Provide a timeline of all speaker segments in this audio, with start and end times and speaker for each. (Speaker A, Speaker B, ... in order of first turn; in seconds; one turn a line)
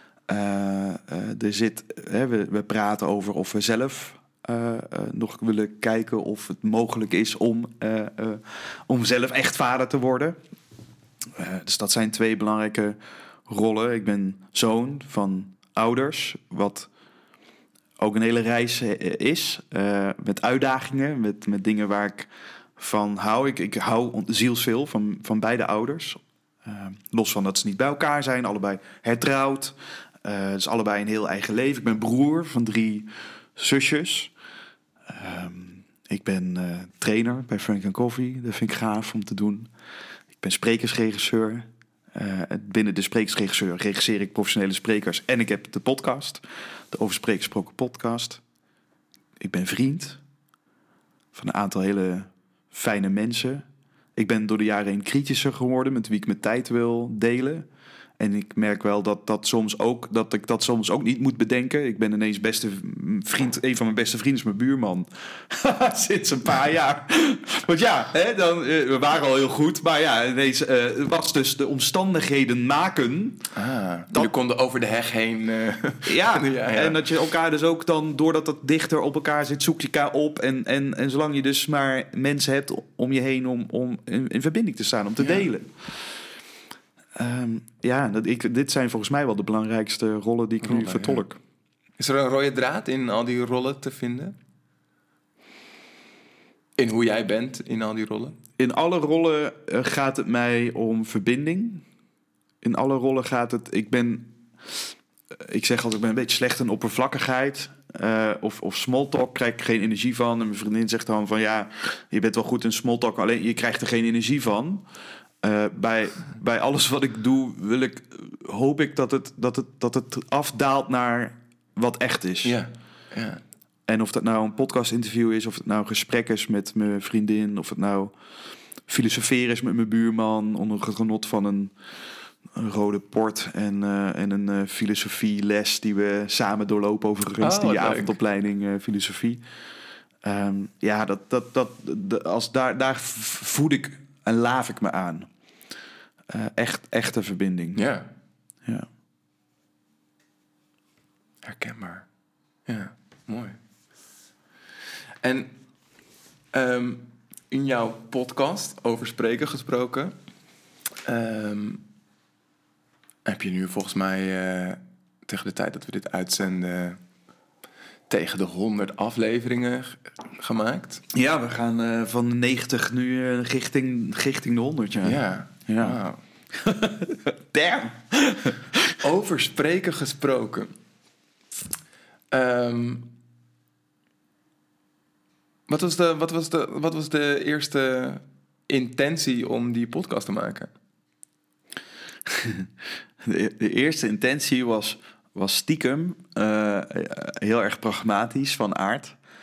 Speaker A: 0.3-10.4
Speaker A: 11.4-12.9
Speaker A: 13.5-16.9
Speaker A: 18.0-34.3
Speaker A: 35.1-39.7
Speaker A: 40.4-48.4
Speaker A: 49.4-50.2
Speaker A: 51.3-53.6
Speaker A: 54.1-57.6
Speaker A: 58.2-73.4
Speaker B: 73.5-77.0
Speaker A: 76.0-86.0
Speaker B: 85.2-85.5
Speaker A: 87.2-91.4
Speaker B: 90.6-91.2
Speaker B: 92.0-94.3
Speaker B: 96.8-98.4
Speaker A: 98.6-101.8
Speaker A: 102.6-104.3
Speaker A: 105.4-114.8
Speaker A: 115.4-122.6
Speaker B: 122.4-123.4
Speaker A: 123.9-128.1
Speaker A: 128.9-131.7
Speaker A: 132.5-139.4
Speaker B: 137.4-138.2
Speaker A: 140.2-145.3
Speaker A: 146.3-147.8
Speaker B: 147.7-148.1
Speaker B: 151.4-152.1
Speaker B: 152.7-153.6
Speaker B: 155.2-155.6
Speaker B: 156.5-160.1
Speaker B: 161.0-161.8
Speaker B: 163.2-167.0
Speaker B: 168.1-171.0
Speaker A: 171.1-176.0
Speaker B: 175.0-176.2
Speaker A: 176.5-178.9
Speaker B: 179.0-180.7
Speaker B: 182.3-183.1
Speaker B: 185.7-190.7
Speaker A: 192.3-192.7
Speaker A: 193.2-199.2